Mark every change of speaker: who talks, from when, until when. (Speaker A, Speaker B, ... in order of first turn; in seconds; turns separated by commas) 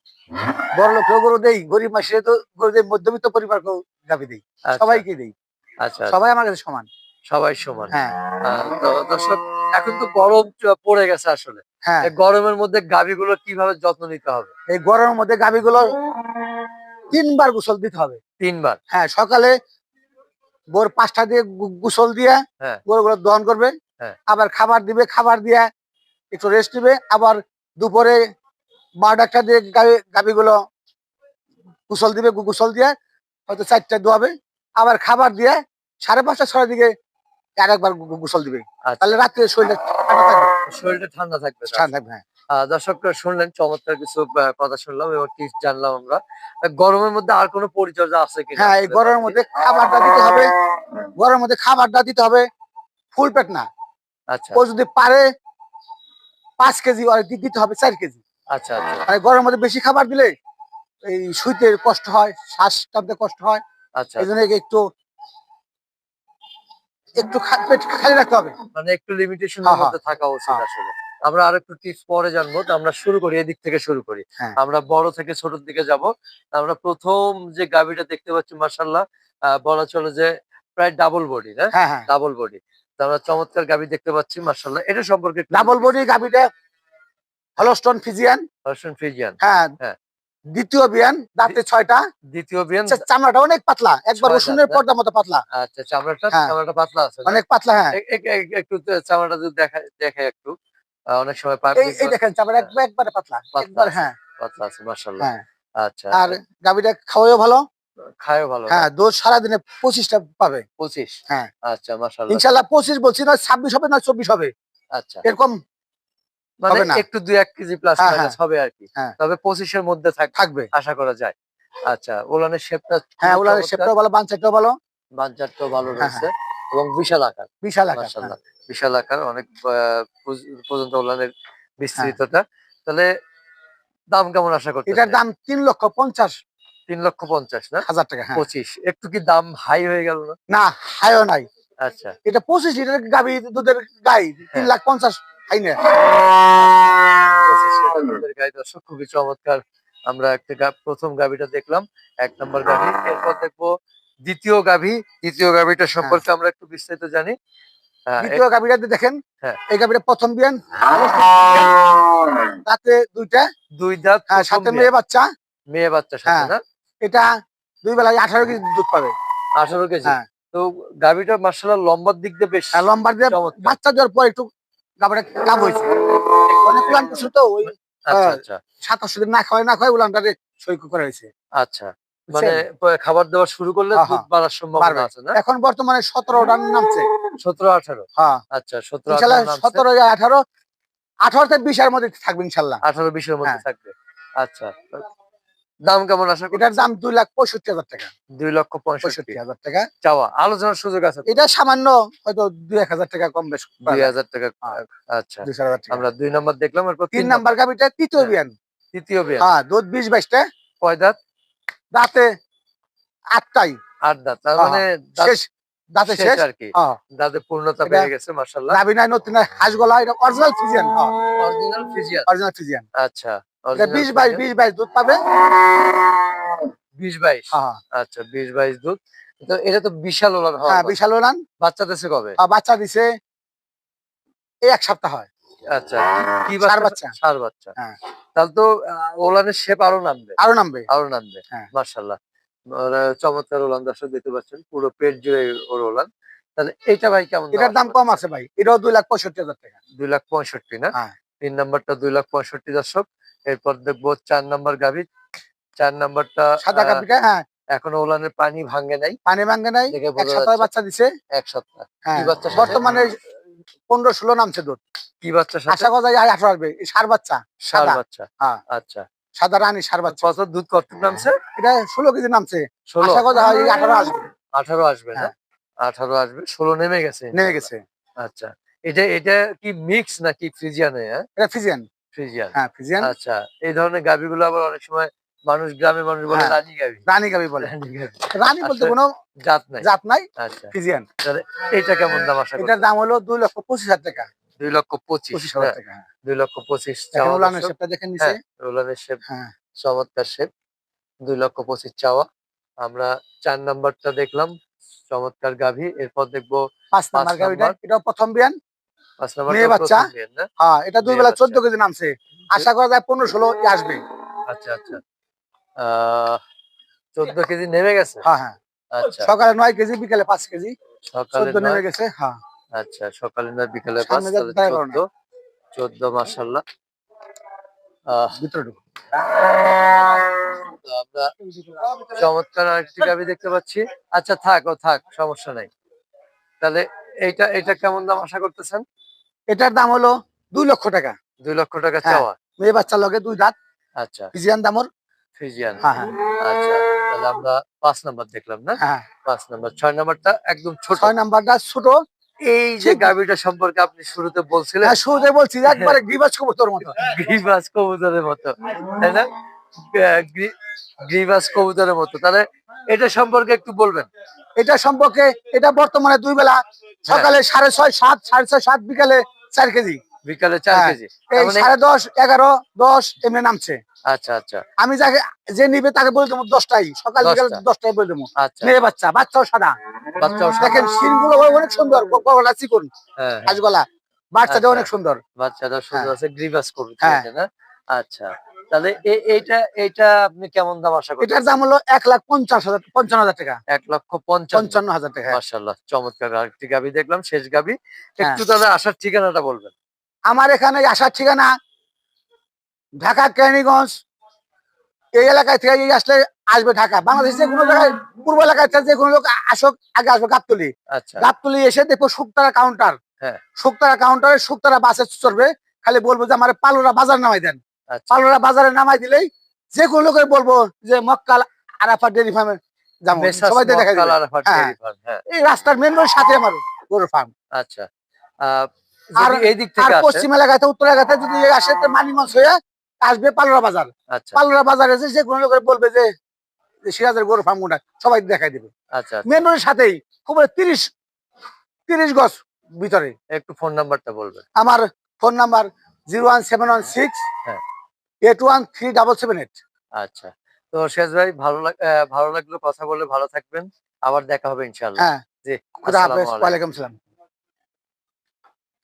Speaker A: 0.7-5.3, Speaker B: 4.7-5.0, Speaker B: 5.8-6.3, Speaker A: 6.1-6.9, Speaker B: 7.3-14.5, Speaker A: 11.8-12.1, Speaker A: 14.7-15.9, Speaker A: 17.1-18.2, Speaker B: 18.4-18.8, Speaker A: 18.9-19.5, Speaker A: 20.7-23.7, Speaker A: 24.3-25.7, Speaker A: 26.3-28.2, Speaker A: 29.0-30.5, Speaker A: 31.9-32.9, Speaker A: 33.5-36.9, Speaker A: 37.6-40.5, Speaker B: 38.9-39.2, Speaker B: 40.6-41.9, Speaker A: 41.7-42.2, Speaker B: 42.5-49.4, Speaker A: 48.6-50.5, Speaker A: 51.2-52.4, Speaker A: 53.1-53.6, Speaker B: 54.3-54.6, Speaker A: 54.5-55.2, Speaker A: 56.6-58.2, Speaker B: 58.5-59.1, Speaker A: 59.1-60.3, Speaker A: 61.1-63.6, Speaker B: 64.0-64.3, Speaker A: 64.2-64.8, Speaker A: 67.2-68.5, Speaker B: 68.7-85.8, Speaker A: 69.6-70.0, Speaker A: 81.7-82.1, Speaker A: 85.5-86.4, Speaker A: 87.6-88.4, Speaker B: 88.7-90.0, Speaker A: 89.4-89.7, Speaker A: 90.5-92.0, Speaker B: 92.3-93.0, Speaker A: 92.9-95.4, Speaker B: 94.1-94.8, Speaker B: 95.5-97.4, Speaker A: 97.2-98.0, Speaker B: 97.9-100.5, Speaker B: 101.1-102.7, Speaker A: 101.8-104.1, Speaker B: 103.5-105.3, Speaker B: 105.8-106.4, Speaker A: 106.1-107.6, Speaker B: 108.2-108.9, Speaker A: 108.7-110.6, Speaker B: 110.8-112.6, Speaker A: 112.3-114.5, Speaker B: 115.0-115.2, Speaker A: 115.2-115.5, Speaker B: 116.6-121.3, Speaker A: 116.7-117.0, Speaker A: 118.0-118.3, Speaker A: 120.3-120.7, Speaker B: 121.9-123.9, Speaker A: 123.2-124.7, Speaker B: 125.2-133.1, Speaker A: 126.0-126.3, Speaker A: 127.6-128.3, Speaker B: 134.1-135.2, Speaker A: 134.9-136.3, Speaker B: 136.9-140.3, Speaker A: 137.8-138.4, Speaker A: 140.5-141.4, Speaker B: 141.8-142.2, Speaker A: 142.2-145.8, Speaker B: 146.1-153.7, Speaker B: 154.2-157.3, Speaker B: 158.1-158.4, Speaker A: 158.2-159.2, Speaker A: 159.7-161.6, Speaker A: 162.7-163.4, Speaker B: 163.8-164.9, Speaker A: 164.3-165.2, Speaker B: 165.7-166.6, Speaker A: 166.2-167.3, Speaker A: 167.8-169.1, Speaker B: 169.6-173.8, Speaker A: 172.7-174.5, Speaker A: 175.0-175.9, Speaker B: 176.5-177.1, Speaker A: 176.6-181.3, Speaker B: 177.6-178.6, Speaker B: 181.6-185.4, Speaker A: 182.3-182.6, Speaker A: 183.9-184.2, Speaker A: 184.8-187.1, Speaker B: 187.4-189.8, Speaker A: 189.1-190.4, Speaker A: 191.2-192.8, Speaker B: 192.8-195.0, Speaker B: 195.9-196.8, Speaker A: 196.5-198.1, Speaker B: 198.4-199.4, Speaker A: 199.0-199.8, Speaker B: 200.0-201.4, Speaker A: 201.3-204.1, Speaker B: 203.8-207.4, Speaker A: 205.4-206.0, Speaker A: 207.1-208.5, Speaker B: 208.9-209.5, Speaker A: 209.4-210.4, Speaker B: 210.8-211.2, Speaker A: 211.9-212.3, Speaker A: 213.3-213.8, Speaker B: 214.0-215.4, Speaker A: 214.6-217.0, Speaker B: 216.0-218.8, Speaker A: 217.8-218.1, Speaker A: 218.7-221.1, Speaker B: 221.4-222.3, Speaker A: 222.3-222.8, Speaker B: 223.0-224.4, Speaker A: 223.7-225.2, Speaker B: 227.0-230.9, Speaker A: 227.5-227.8, Speaker A: 230.7-231.4, Speaker B: 231.6-232.3, Speaker A: 232.4-233.1, Speaker A: 234.7-235.3, Speaker B: 235.7-237.7, Speaker A: 236.6-237.1, Speaker B: 238.3-240.3, Speaker A: 240.4-240.9, Speaker B: 240.9-242.2, Speaker B: 242.7-248.2, Speaker A: 247.5-249.7, Speaker B: 250.0-255.1, Speaker B: 255.8-257.0, Speaker A: 256.6-257.4, Speaker B: 257.7-259.2, Speaker A: 259.2-261.1, Speaker B: 259.9-260.7, Speaker B: 261.3-262.9, Speaker A: 262.1-263.1, Speaker A: 263.9-264.8, Speaker B: 265.2-265.9, Speaker A: 265.7-268.6, Speaker B: 267.7-269.0, Speaker A: 269.4-270.3, Speaker B: 270.1-271.4, Speaker A: 271.6-274.2, Speaker B: 272.9-273.3, Speaker B: 274.6-275.3, Speaker B: 275.8-277.7, Speaker A: 277.3-277.8, Speaker B: 278.2-281.2, Speaker A: 281.4-281.8, Speaker B: 282.1-287.0, Speaker A: 282.5-283.1, Speaker A: 286.3-287.7, Speaker B: 287.6-288.9, Speaker A: 288.3-289.1, Speaker B: 289.4-289.9, Speaker A: 289.8-291.1, Speaker B: 290.4-290.7, Speaker B: 291.2-292.8, Speaker A: 292.6-294.2, Speaker B: 294.6-295.8, Speaker A: 295.3-296.0, Speaker B: 296.3-299.2, Speaker A: 297.1-298.4, Speaker B: 299.8-300.5, Speaker B: 301.2-302.2, Speaker B: 302.8-304.5, Speaker B: 305.1-306.6, Speaker A: 306.9-308.5, Speaker B: 307.1-307.7, Speaker B: 309.2-310.5, Speaker A: 309.5-310.0, Speaker A: 310.6-314.0, Speaker B: 311.0-311.6, Speaker B: 314.5-315.0, Speaker B: 315.8-316.4, Speaker B: 317.1-318.2, Speaker A: 318.2-320.7, Speaker B: 318.9-319.3, Speaker B: 321.1-321.9, Speaker A: 321.3-322.4, Speaker B: 322.8-325.0, Speaker A: 324.0-325.0, Speaker B: 325.7-326.6, Speaker B: 328.1-328.4, Speaker A: 328.4-328.8, Speaker B: 330.5-331.3, Speaker A: 331.4-332.2, Speaker B: 332.1-335.7, Speaker B: 336.6-338.8, Speaker A: 339.5-341.1, Speaker B: 341.4-342.4, Speaker A: 342.0-343.5, Speaker B: 344.0-344.3, Speaker A: 344.3-344.9, Speaker B: 345.4-351.1, Speaker A: 345.8-346.1, Speaker A: 351.0-351.9, Speaker A: 352.5-353.1, Speaker B: 352.5-355.0, Speaker A: 354.8-357.0, Speaker B: 355.7-356.0, Speaker B: 356.9-359.3, Speaker B: 359.9-360.5, Speaker B: 361.1-364.1, Speaker A: 364.6-370.0, Speaker B: 367.1-367.3, Speaker B: 370.2-371.7, Speaker A: 370.7-373.8, Speaker B: 374.1-374.6, Speaker A: 374.8-379.7, Speaker B: 377.2-377.6, Speaker B: 378.4-378.8, Speaker B: 380.1-380.9, Speaker A: 380.6-382.9, Speaker B: 383.2-383.6, Speaker A: 383.4-385.2, Speaker B: 384.5-391.3, Speaker A: 391.2-393.6, Speaker B: 393.7-399.7, Speaker A: 394.5-395.4, Speaker A: 400.3-401.5, Speaker A: 403.0-403.9, Speaker A: 405.2-413.0, Speaker B: 410.9-411.3, Speaker A: 413.6-417.6, Speaker B: 417.9-418.2, Speaker A: 418.1-424.7, Speaker B: 423.1-425.2, Speaker A: 425.3-427.3, Speaker B: 427.6-427.9, Speaker B: 428.4-430.2, Speaker A: 429.2-436.1, Speaker B: 434.1-434.4, Speaker A: 436.9-438.7, Speaker B: 438.9-439.4, Speaker A: 439.3-440.8, Speaker A: 441.9-443.1, Speaker B: 443.3-444.4, Speaker A: 444.6-447.2, Speaker A: 448.2-449.6, Speaker B: 450.0-456.6, Speaker A: 455.8-456.9